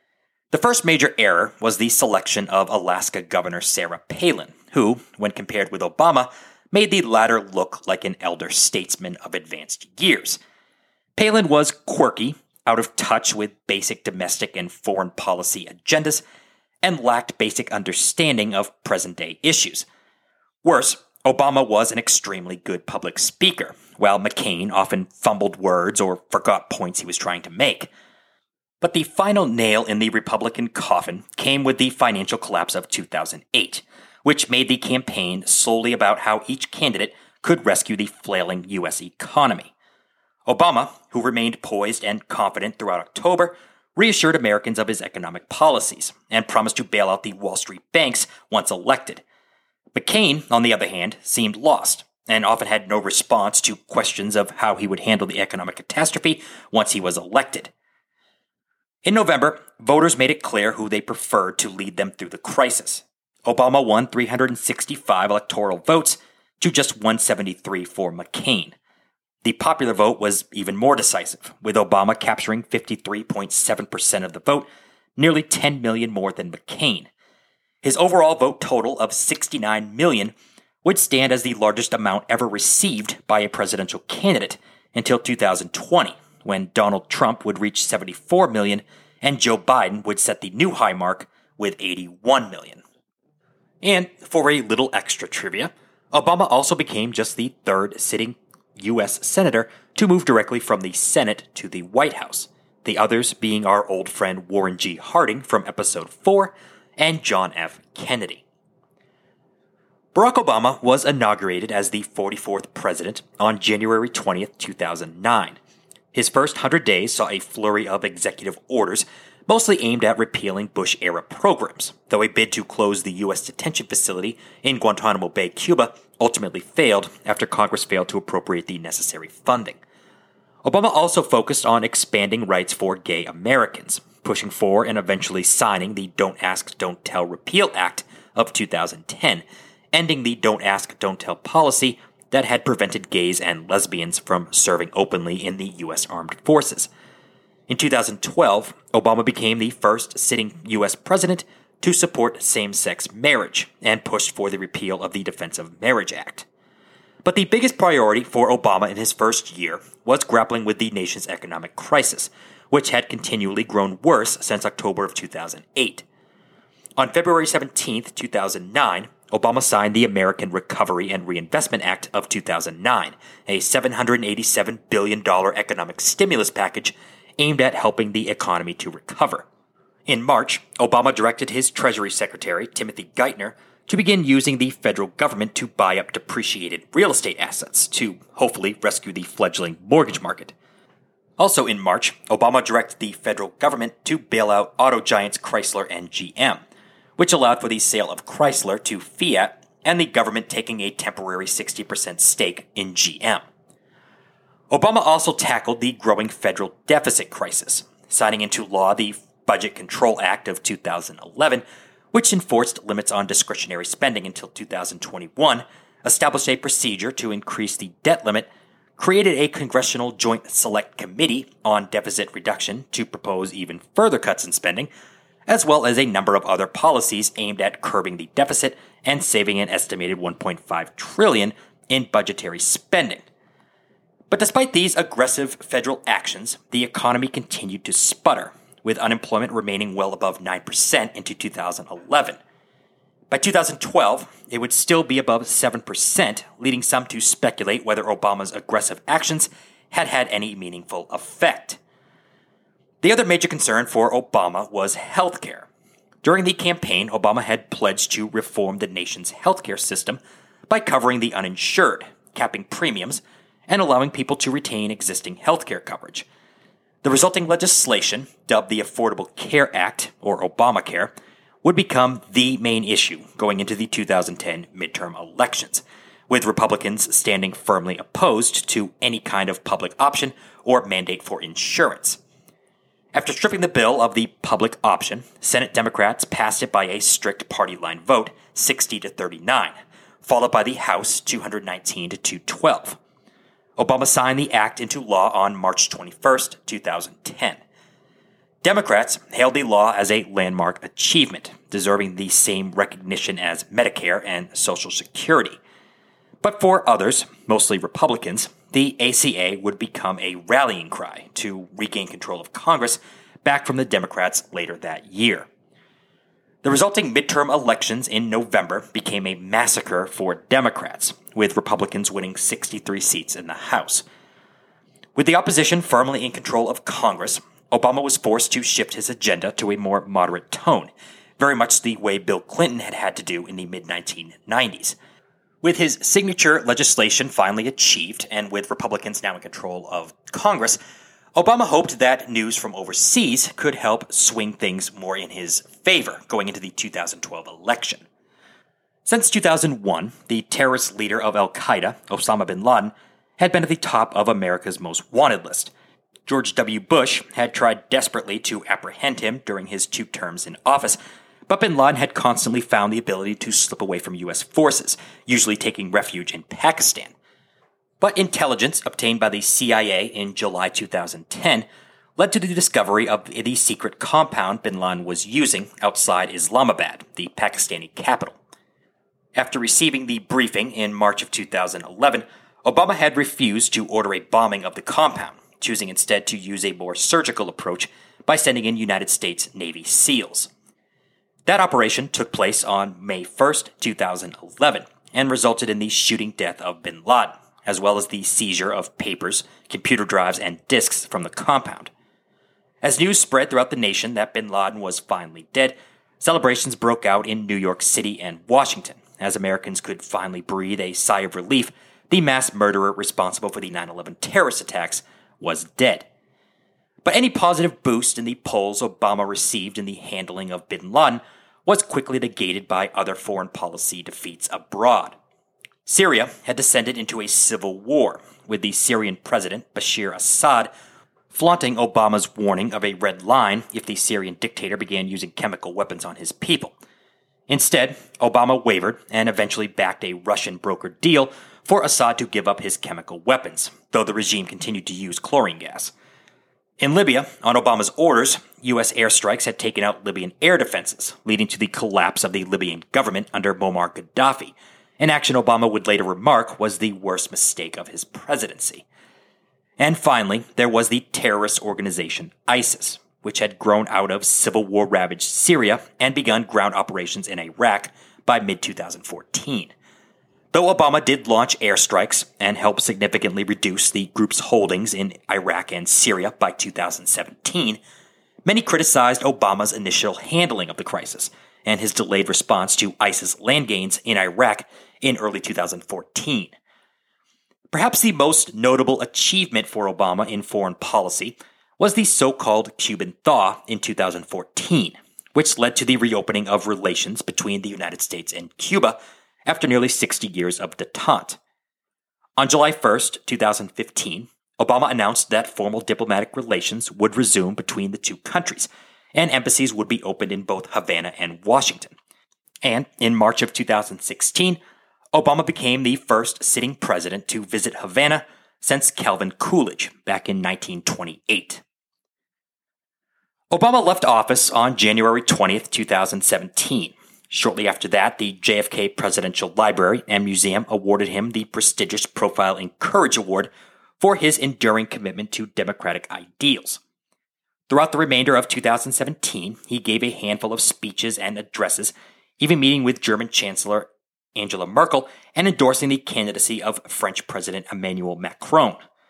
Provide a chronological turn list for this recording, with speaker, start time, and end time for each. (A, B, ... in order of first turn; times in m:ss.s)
0:00.5-0:10.4 A
0:11.2-0:16.2 A
0:16.8-0:19.9 A
0:20.6-0:27.9 A
0:28.8-0:39.7 A
0:40.5-0:49.2 A
0:49.9-0:57.7 A
0:59.0-1:08.8 A
1:09.4-1:17.1 A
1:17.8-1:32.8 A
1:33.8-1:48.4 A
1:50.2-1:55.6 A
1:56.1-2:09.8 A
2:10.6-2:26.9 A
2:27.7-2:36.5 A
2:37.2-2:46.0 A
2:47.0-2:59.5 A
3:00.1-3:10.5 A
3:11.4-3:16.6 A
3:17.2-3:23.4 A
3:24.7-3:44.9 A
3:45.5-3:53.3 A
3:54.3-4:02.4 A
4:03.3-4:11.8 A
4:13.0-4:15.7 A
4:16.2-4:26.3 A
4:27.0-4:31.1 A
4:31.6-4:42.2 A
4:43.1-4:53.0 A
4:53.8-4:57.6 A
4:58.6-5:05.6 A
5:06.4-5:15.5 A
5:16.6-5:24.0 A
5:25.2-5:35.0 A
5:35.6-5:40.8 A
5:41.4-5:48.0 A
5:49.1-5:55.7 A
5:56.3-6:07.1 A
6:08.0-6:18.4 A
6:19.4-6:30.5 A
6:31.5-6:41.9 A
6:42.8-6:56.1 A
6:57.0-7:05.2 A
7:05.9-7:10.7 A
7:11.3-7:16.8 A
7:17.5-7:25.9 A
7:26.8-7:38.9 A
7:39.8-7:49.7 A
7:50.5-7:57.8 A
7:58.5-8:06.5 A
8:07.7-8:21.4 A
8:22.4-8:32.0 A
8:32.6-8:34.6 A
8:35.1-8:41.6 A
8:43.5-8:56.8 A
8:57.7-9:08.8 A